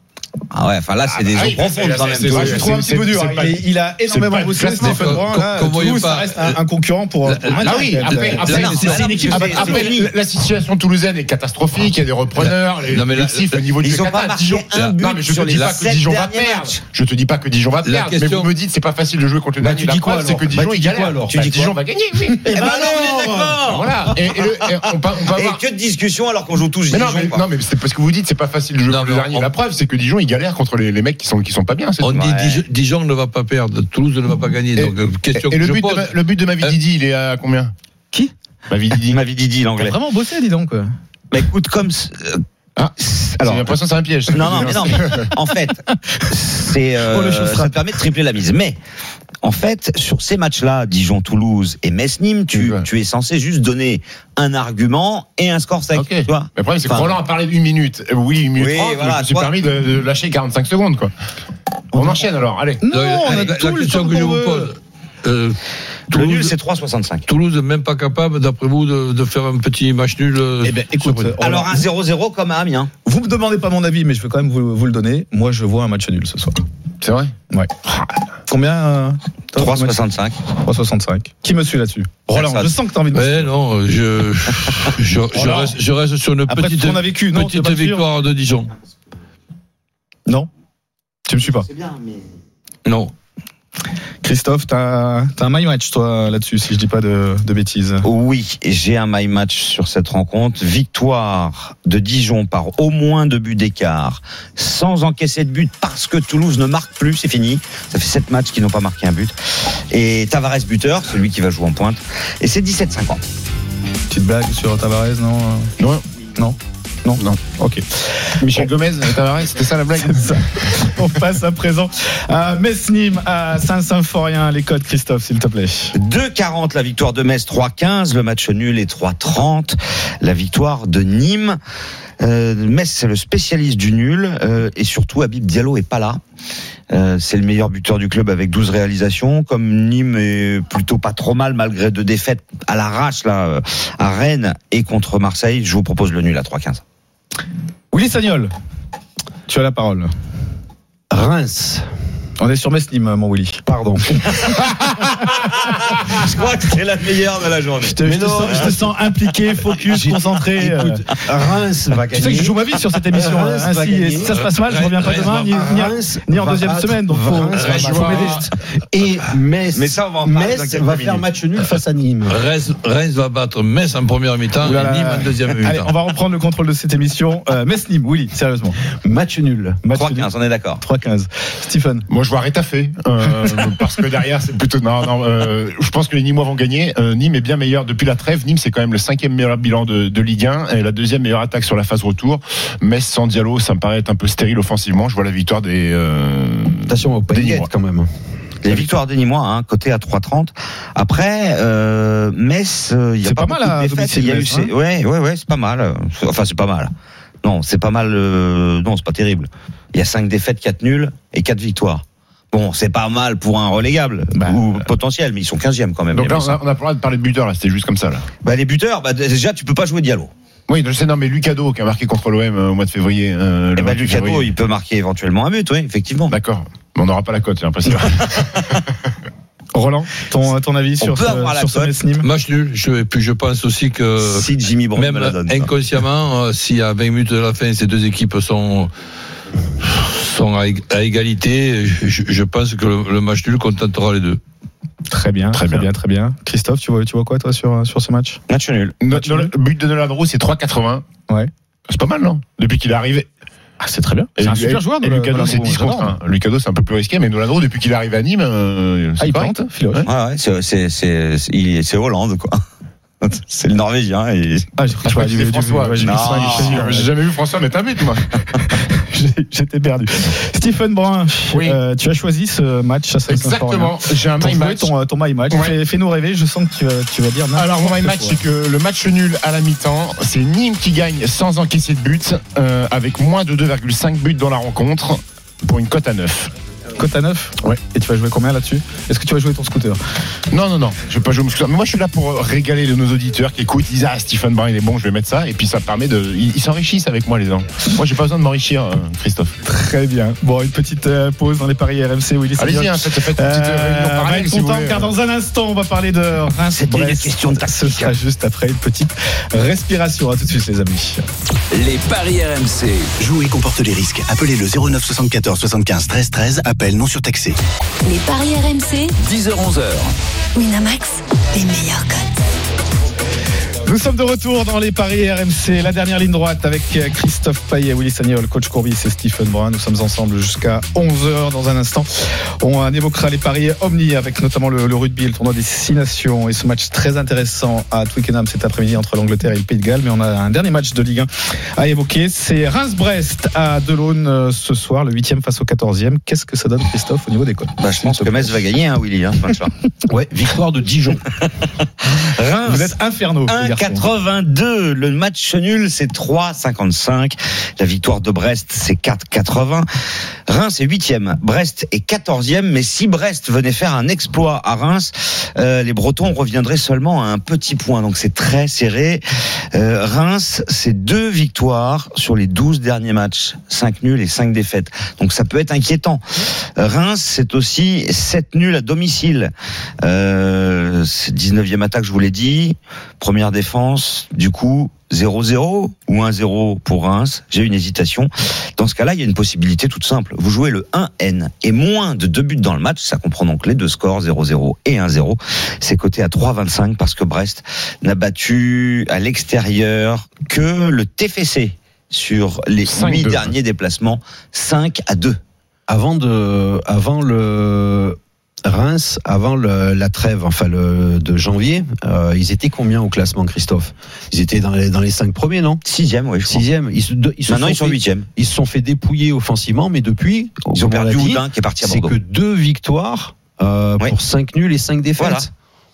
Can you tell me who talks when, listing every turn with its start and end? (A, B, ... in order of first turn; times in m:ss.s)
0:00.5-0:02.7 A
0:01.1-0:05.3 B
0:02.3-0:08.5 C
0:04.8-0:06.6 D
0:07.2-0:09.8 D
0:07.6-0:25.6 B
0:08.2-0:10.1 A
0:12.4-0:13.7 D
0:13.8-0:16.8 A
0:15.5-0:15.7 D
0:17.8-0:18.5 D
0:19.6-0:21.7 E
0:21.4-0:21.7 A
0:22.4-0:27.4 A
0:26.9-0:32.2 B
0:28.9-0:29.5 D
0:32.0-0:36.7 D
0:32.1-0:32.6 A
0:34.8-0:37.7 B
0:38.7-0:39.2 B
0:39.1-0:40.0 A
0:39.8-0:40.9 C
0:41.3-0:42.4 A
0:42.8-0:45.3 B
0:43.0-0:48.8 A
0:47.0-0:47.8 C
0:49.4-0:57.2 A
0:52.5-0:52.8 B
0:55.9-1:01.1 B
0:58.6-0:59.6 A
1:01.9-1:02.8 B
1:02.8-1:04.7 C
1:02.9-1:05.6 D
1:06.1-1:06.5 D
1:06.1-1:07.2 A
1:07.3-1:11.4 D
1:10.6-1:11.8 C
1:11.4-1:12.9 A
1:13.0-1:16.6 C
1:17.0-1:17.3 B
1:18.5-1:20.0 C
1:19.6-1:20.4 A
1:20.5-1:23.5 C
1:22.3-1:22.7 A
1:23.1-1:28.7 D
1:25.3-1:25.8 C
1:26.5-1:28.0 C
1:31.2-1:31.7 C
1:31.4-1:32.2 A
1:32.9-1:33.1 D
1:34.2-1:38.1 C
1:38.0-1:49.3 A
1:49.9-1:53.2 A
1:54.1-1:55.7 C
1:56.4-1:58.7 C
1:57.2-1:57.4 B
1:58.4-2:00.9 B
2:00.0-2:05.9 C
2:06.0-2:11.6 A
2:12.2-2:16.2 A
2:16.9-2:26.8 A
2:27.9-2:28.5 C
2:29.5-2:30.1 C
2:31.1-2:31.8 E
2:32.4-2:33.6 C
2:33.6-2:34.1 E
2:34.3-2:38.7 A
2:37.8-2:41.0 C
2:38.0-2:38.8 E
2:39.8-2:44.3 E
2:42.1-2:48.5 C
2:44.2-2:45.8 D
2:45.4-2:48.3 E
2:47.6-2:48.4 D
2:47.6-2:48.4 B
2:48.9-2:52.4 E
2:49.7-2:51.2 A
2:52.3-2:55.9 D
2:54.6-2:58.8 C
2:59.0-2:59.8 E
2:59.8-3:00.3 C
2:59.9-3:00.8 A
3:00.8-3:02.1 C
3:02.1-3:17.7 B
3:16.9-3:18.1 E
3:18.6-3:26.9 A
3:23.2-3:24.7 C
3:27.4-3:36.6 A
3:34.4-3:34.6 C
3:36.1-3:38.2 B
3:38.4-3:40.3 A
3:40.7-3:44.5 B
3:43.8-3:46.3 A
3:46.3-3:48.6 B
3:49.7-3:52.2 C
3:51.0-3:51.9 A
3:52.2-3:58.9 D
3:54.2-3:55.7 A
3:59.8-4:04.4 D
4:05.1-4:08.4 C
4:05.5-4:05.8 B
4:08.5-4:09.0 A
4:09.0-4:11.0 B
4:09.1-4:09.5 C
4:11.9-4:13.3 B
4:13.8-4:16.1 C
4:14.4-4:20.1 B
4:19.2-4:20.1 C
4:20.1-4:22.6 A
4:23.2-4:24.7 A
4:24.8-4:27.1 C
4:25.0-4:28.2 B
4:26.0-4:27.0 A
4:28.9-4:38.4 C
4:31.5-4:31.8 B
4:33.3-4:34.9 B
4:37.6-4:46.5 B
4:47.0-4:50.0 C
4:50.5-4:59.6 B
4:59.6-5:11.2 C
5:02.6-5:05.1 B
5:06.7-5:08.2 A
5:11.7-5:13.1 F
5:13.2-5:17.6 G
5:18.0-5:19.1 H
5:19.2-5:20.1 F
5:20.5-5:22.4 H
5:23.8-5:48.6 C
5:47.8-5:49.7 A
5:50.1-5:51.2 E
5:52.0-5:52.9 A
5:52.6-5:54.1 C
5:53.5-5:59.9 A
6:00.5-6:09.2 A
6:09.7-6:19.5 A
6:20.0-6:45.4 A
6:42.8-6:43.5 B
6:45.9-6:55.8 E
6:55.8-6:56.6 A
6:56.4-7:05.5 E
6:57.5-6:58.3 A
7:00.7-7:02.2 A
7:05.2-7:05.5 A